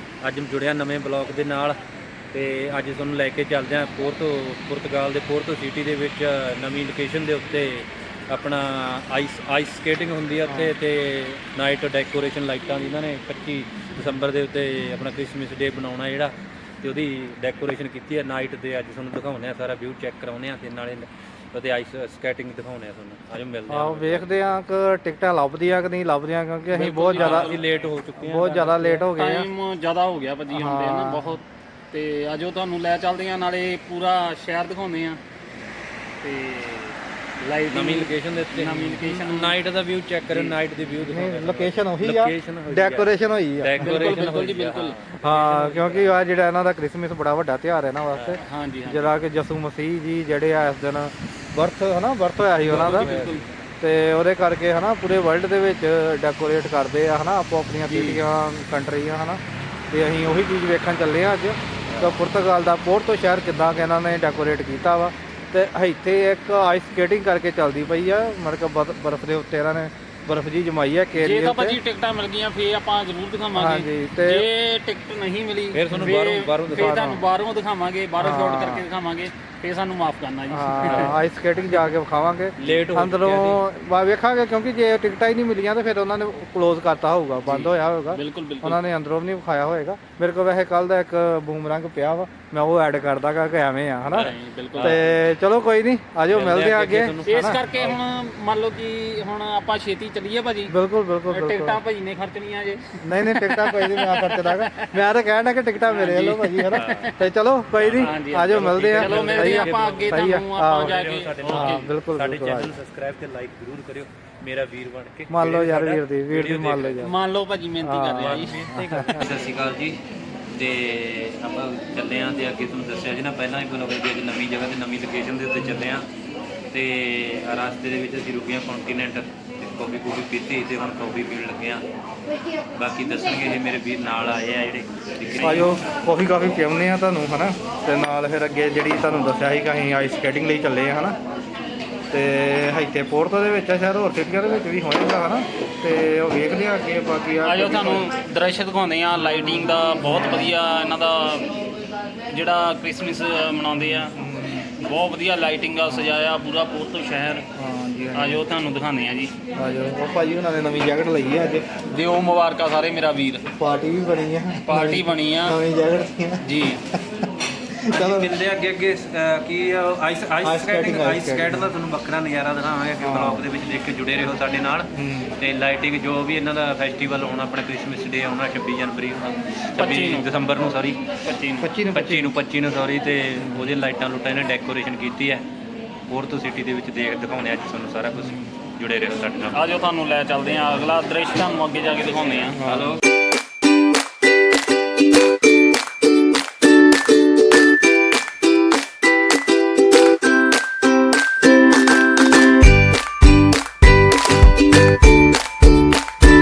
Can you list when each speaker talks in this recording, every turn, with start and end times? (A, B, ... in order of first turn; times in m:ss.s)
0:00.2-0:01.8 A
0:02.3-0:24.6 A
0:10.5-0:10.7 B
0:23.7-0:27.6 B
0:26.7-0:29.1 A
0:27.0-0:27.6 C
0:28.2-0:29.5 B
0:29.1-0:35.2 C
0:30.5-0:31.3 B
0:36.2-0:39.6 C
0:37.7-0:46.1 A
0:40.3-0:40.6 C
0:41.1-0:44.2 B
0:43.8-0:45.0 C
0:45.2-0:53.1 B
0:48.2-0:49.1 C
0:52.6-0:53.6 A
0:52.7-0:53.4 C
0:53.8-1:11.8 B
0:57.9-0:58.3 C
1:11.2-1:21.2 C
1:13.6-1:14.5 B
1:15.7-1:17.1 A
1:16.8-1:17.2 B
1:18.2-1:18.8 B
1:20.5-1:34.3 B
1:20.8-1:21.1 A
1:22.6-1:23.6 A
1:27.5-1:28.8 C
1:34.1-1:35.1 A
1:34.1-1:35.1 C
1:34.8-1:37.6 B
1:36.3-1:38.0 A
1:37.3-1:40.7 C
1:40.7-1:41.8 B
1:41.3-1:45.0 C
1:43.0-1:52.7 B
1:45.8-1:47.2 C
1:46.7-1:47.2 A
1:47.7-1:57.1 A
1:48.0-1:51.9 C
1:55.3-1:57.2 B
1:57.0-1:58.7 C
1:57.8-1:59.3 B
1:58.1-2:06.1 A
2:06.7-2:11.8 A
2:12.7-2:15.8 A
2:15.4-2:21.2 B
2:22.1-2:28.1 B
2:27.4-2:31.5 C
2:30.0-2:30.5 B
2:32.3-2:37.5 C
2:33.8-2:34.6 B
2:37.6-2:38.4 B
2:38.1-2:39.3 C
2:39.6-2:41.8 B
2:41.9-2:43.4 C
2:43.5-2:48.4 B
2:44.6-2:45.6 C
2:46.4-2:46.8 C
2:47.9-3:01.0 A
2:50.4-2:51.7 B
2:53.0-2:53.4 B
2:55.0-2:55.3 B
2:59.8-3:00.3 C
3:01.2-3:01.7 C
3:01.6-3:02.4 B
3:01.9-3:05.4 A
3:03.4-3:03.7 B
3:06.1-3:09.6 A
3:09.5-3:12.6 C
3:12.6-3:13.0 A
3:12.7-3:13.0 B